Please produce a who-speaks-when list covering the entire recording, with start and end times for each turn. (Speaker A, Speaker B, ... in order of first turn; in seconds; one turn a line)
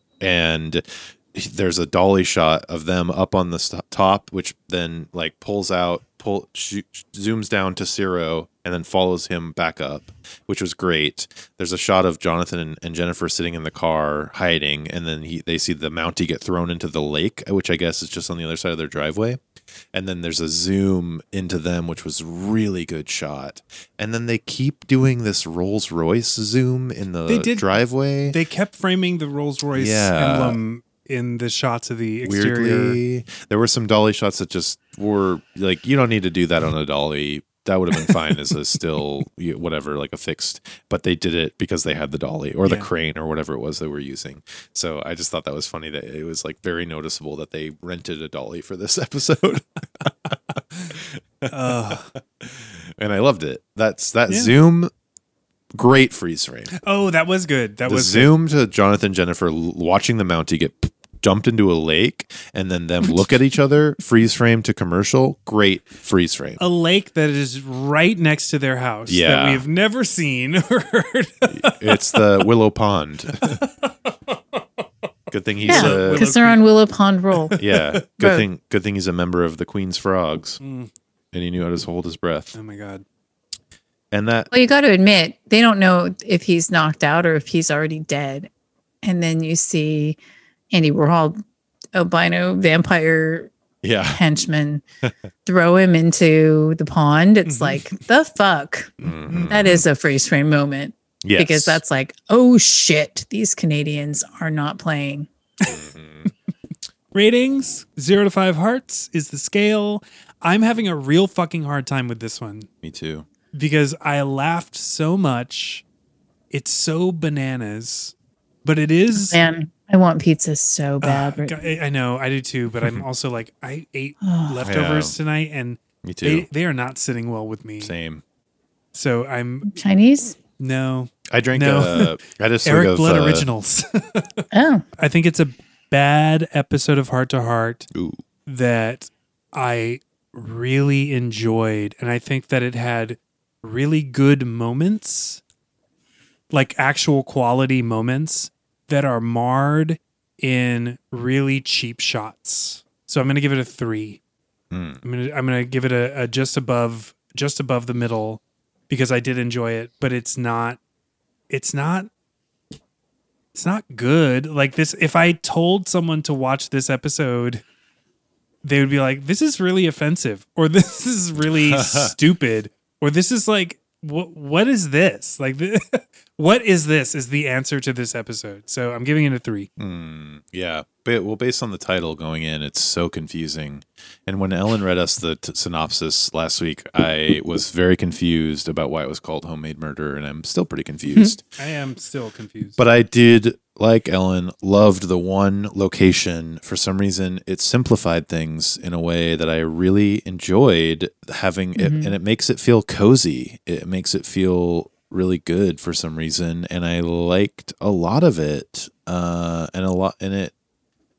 Speaker A: 0.2-19.4
Speaker A: 19.9-28.4
Speaker B: 27.3-27.7
Speaker B: 28.3-33.0
Speaker A: 29.7-30.6
Speaker A: 32.2-54.9
Speaker B: 51.5-52.1
Speaker A: 55.7-56.7
Speaker B: 56.7-58.3
Speaker A: 57.9-66.6
Speaker B: 66.6-72.2
Speaker A: 69.1-69.6
Speaker A: 71.5-73.6
Speaker B: 73.4-73.9
Speaker A: 75.3-76.2
Speaker B: 75.6-76.6
Speaker C: 75.7-77.6
Speaker B: 77.3-78.0
Speaker A: 77.5-80.6
Speaker B: 80.6-80.9
Speaker A: 81.3-82.5
Speaker B: 82.5-83.0
Speaker A: 84.1-84.5
Speaker C: 84.5-88.5
Speaker C: 89.0-90.2
Speaker C: 90.7-91.4
Speaker C: 91.9-93.5
Speaker A: 93.8-94.2
Speaker C: 94.1-94.8
Speaker C: 95.4-105.3
Speaker B: 97.5-97.9
Speaker A: 99.0-99.8
Speaker B: 99.3-99.5
Speaker A: 101.2-101.8
Speaker A: 105.7-106.3
Speaker B: 107.1-112.7
Speaker A: 112.8-113.2
Speaker B: 113.5-115.8
Speaker B: 116.5-118.1
Speaker B: 118.6-119.4
Speaker C: 119.1-121.7
Speaker B: 121.0-127.9
Speaker C: 124.2-124.6
Speaker A: 124.6-125.1
Speaker A: 126.0-126.5
Speaker A: 127.8-128.2
Speaker B: 128.9-129.7
Speaker C: 129.7-130.4
Speaker B: 130.6-134.4
Speaker A: 131.3-133.5
Speaker C: 134.5-134.8
Speaker B: 135.0-137.9
Speaker A: 137.9-138.2
Speaker B: 138.4-145.4
Speaker B: 146.5-154.2
Speaker A: 154.7-155.0
Speaker B: 155.0-160.8
Speaker B: 161.5-162.1
Speaker B: 163.5-167.6
Speaker B: 168.6-179.7
Speaker A: 171.5-172.1
Speaker A: 179.8-191.4
Speaker B: 191.2-192.8
Speaker A: 192.8-210.5
Speaker C: 201.8-202.1